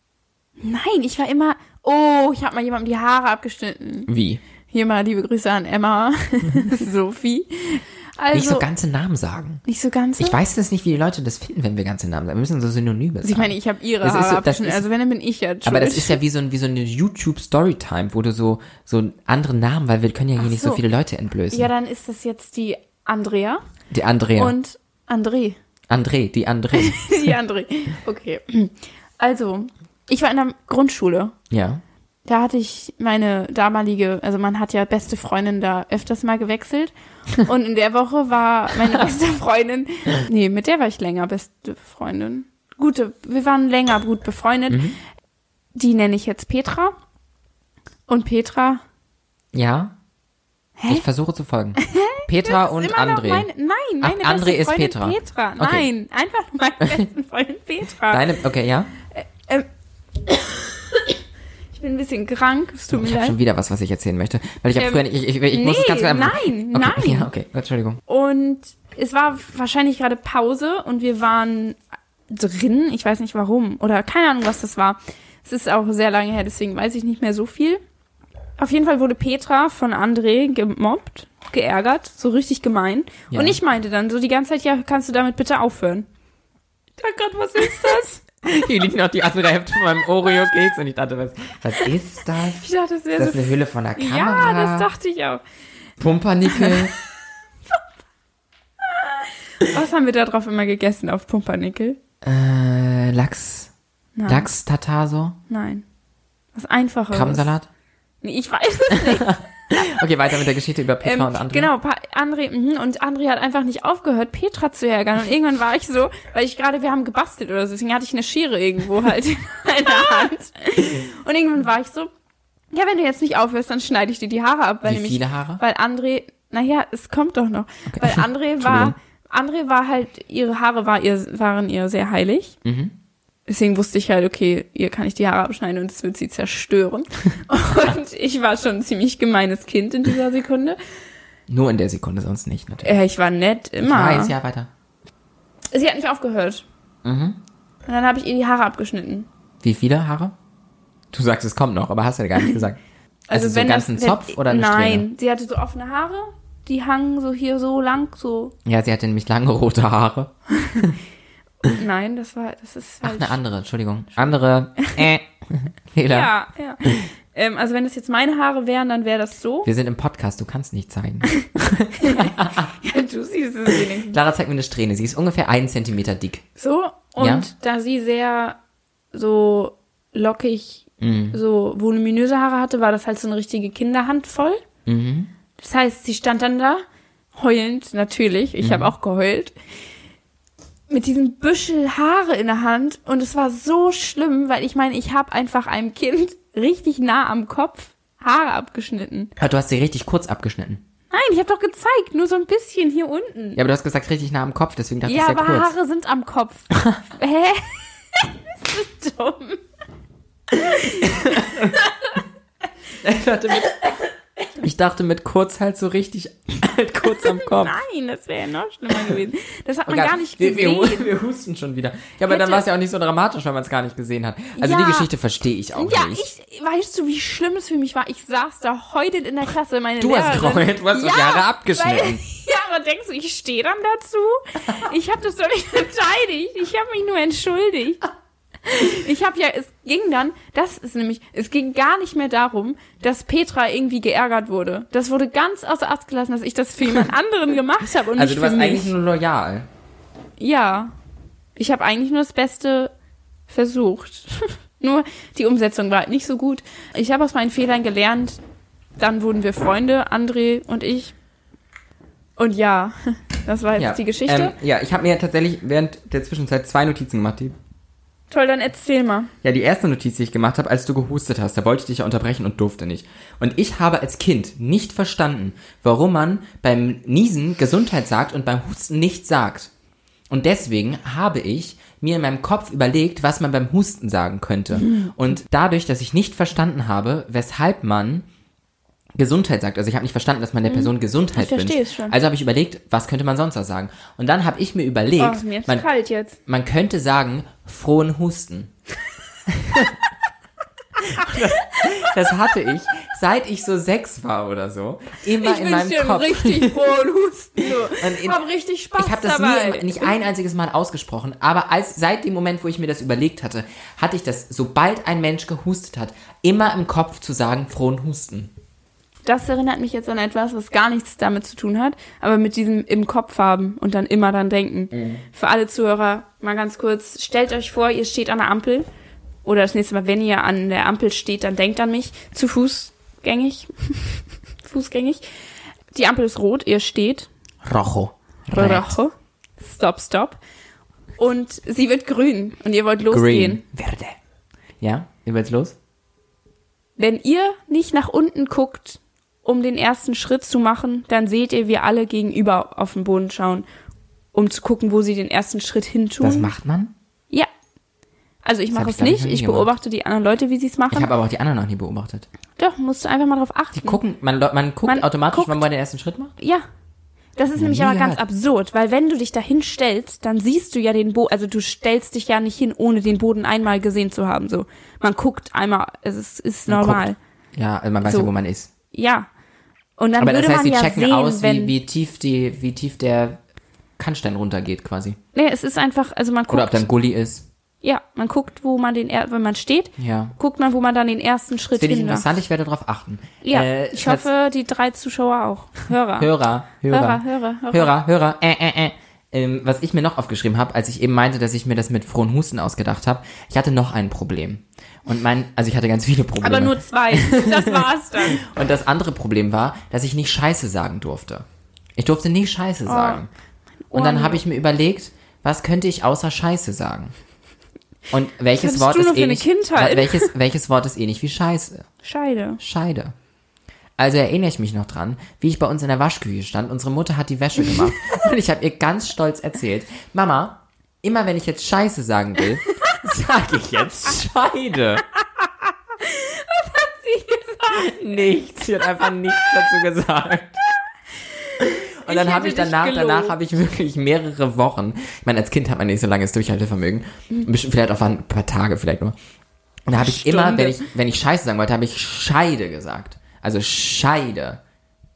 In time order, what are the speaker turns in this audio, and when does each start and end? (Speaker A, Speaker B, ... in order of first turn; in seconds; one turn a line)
Speaker A: 0.6-4.1
Speaker B: 4.1-4.4
Speaker A: 4.7-8.7
Speaker B: 8.3-9.6
Speaker A: 9.7-10.4
Speaker B: 10.2-14.8
Speaker A: 13.2-16.2
Speaker B: 15.6-21.7
Speaker A: 20.4-20.8
Speaker A: 21.5-23.6
Speaker B: 23.9-24.5
Speaker A: 24.4-25.6
Speaker B: 25.9-27.3
Speaker A: 26.7-31.3
Speaker B: 31.5-31.8
Speaker A: 32.2-44.8
Speaker B: 44.7-45.0
Speaker A: 45.7-46.9
Speaker A: 48.1-48.8
Speaker B: 49.5-49.9
Speaker A: 50.8-51.0
Speaker B: 50.9-53.5
Speaker A: 51.8-58.2
Speaker B: 54.0-55.9
Speaker B: 58.1-58.9
Speaker A: 59.1-59.7
Speaker A: 60.3-61.0
Speaker A: 61.7-63.4
Speaker B: 62.9-68.0
Speaker A: 64.8-67.3
Speaker A: 68.1-71.8
Speaker A: 72.3-77.8
Speaker A: 78.6-86.1
Speaker B: 83.3-83.6
Speaker A: 87.0-88.2
Speaker B: 88.4-94.9
Speaker A: 92.4-95.4
Speaker B: 96.0-96.9
Speaker A: 96.5-96.9
Speaker A: 98.9-102.0
Speaker B: 102.2-103.7
Speaker A: 104.2-104.5
Speaker B: 104.3-105.3
Speaker A: 105.5-105.8
Speaker A: 106.5-107.5
Speaker B: 107.1-107.7
Speaker A: 108.2-109.4
Speaker B: 109.0-111.7
Speaker A: 111.0-122.1
Speaker A: 122.7-132.6
Speaker B: 124.8-125.6
Speaker B: 127.9-128.9
Speaker B: 132.6-132.9
Speaker A: 133.5-140.8
Speaker B: 141.5-143.0
Speaker A: 142.8-144.3
Speaker B: 143.8-144.7
Speaker A: 145.7-146.7
Speaker B: 147.0-147.4
Speaker A: 147.9-149.3
Speaker B: 149.6-150.3
Speaker B: 151.1-152.8
Speaker A: 153.3-158.5
Speaker B: 153.3-155.1
Speaker B: 158.6-161.0
Speaker A: 161.6-163.4
Speaker B: 163.0-166.3
Speaker A: 164.8-165.1
Speaker A: 166.1-169.7
Speaker B: 169.6-172.7
Speaker A: 172.0-174.2
Speaker B: 173.7-176.4
Speaker A: 176.6-178.6
Speaker B: 177.2-177.5
Speaker A: 179.1-184.6
Speaker B: 181.0-181.4
Speaker B: 184.8-185.3
Speaker A: 185.6-186.8
Speaker A: 187.3-189.5
Speaker B: 188.6-188.9
Speaker A: 190.9-199.3
Speaker B: 199.4-200.8
Speaker A: 201.1-203.6
Speaker B: 203.6-205.7
Speaker A: 205.0-209.6
Speaker B: 206.8-207.0
Speaker A: 210.5-212.2
Speaker B: 210.8-211.8
Speaker B: 213.0-213.9
Speaker B: 214.6-217.8
Speaker A: 217.0-221.1
Speaker B: 219.9-226.2
Speaker A: 222.3-222.6
Speaker A: 224.6-225.1
Speaker A: 225.7-238.0
Speaker B: 230.0-232.2
Speaker A: 238.6-248.9
Speaker B: 248.1-249.7
Speaker A: 250.4-250.9
Speaker A: 251.6-252.9
Speaker A: 253.5-258.4
Speaker A: 259.0-261.1
Speaker A: 262.4-264.6
Speaker B: 263.8-267.5
Speaker A: 268.3-269.3
Speaker B: 269.4-279.7
Speaker B: 280.3-288.3
Speaker A: 284.8-285.1
Speaker B: 289.1-295.9
Speaker A: 290.6-292.2
Speaker A: 295.2-296.4
Speaker B: 296.5-298.7
Speaker B: 299.5-299.9
Speaker B: 301.0-306.8
Speaker A: 301.2-301.9
Speaker A: 305.4-310.2
Speaker B: 307.7-308.4
Speaker B: 309.0-318.5
Speaker A: 319.2-328.9
Speaker B: 324.9-325.2
Speaker A: 329.4-335.2
Speaker A: 335.9-337.3
Speaker B: 337.6-339.0
Speaker A: 338.5-340.4
Speaker A: 341.2-343.6
Speaker B: 343.1-344.1
Speaker B: 344.8-345.8
Speaker A: 347.0-353.6
Speaker A: 354.3-356.5
Speaker B: 356.2-356.9
Speaker A: 358.4-361.1
Speaker B: 358.7-359.7
Speaker B: 360.9-362.3
Speaker A: 362.6-364.0
Speaker B: 363.7-366.3
Speaker A: 364.8-365.6
Speaker A: 366.4-366.6
Speaker A: 367.4-377.2
Speaker B: 367.6-368.2
Speaker B: 376.7-378.7
Speaker A: 378.0-378.3
Speaker A: 378.9-379.3
Speaker A: 380.0-381.7
Speaker B: 380.2-383.4
Speaker B: 384.0-385.2
Speaker A: 385.3-386.8
Speaker B: 386.5-387.4
Speaker A: 387.8-392.3
Speaker B: 390.0-390.3
Speaker B: 391.7-394.3
Speaker A: 393.4-396.3
Speaker B: 396.2-413.3
Speaker A: 396.9-397.9
Speaker A: 406.4-408.4
Speaker A: 412.9-413.2
Speaker A: 413.9-414.4
Speaker B: 413.9-417.1
Speaker B: 418.1-421.8
Speaker A: 418.6-420.3
Speaker A: 422.0-422.6
Speaker B: 422.6-423.1
Speaker B: 424.0-435.0
Speaker A: 436.0-438.1
Speaker B: 437.7-440.6
Speaker A: 441.3-443.4
Speaker B: 441.6-449.1
Speaker B: 449.9-454.6
Speaker A: 449.9-450.8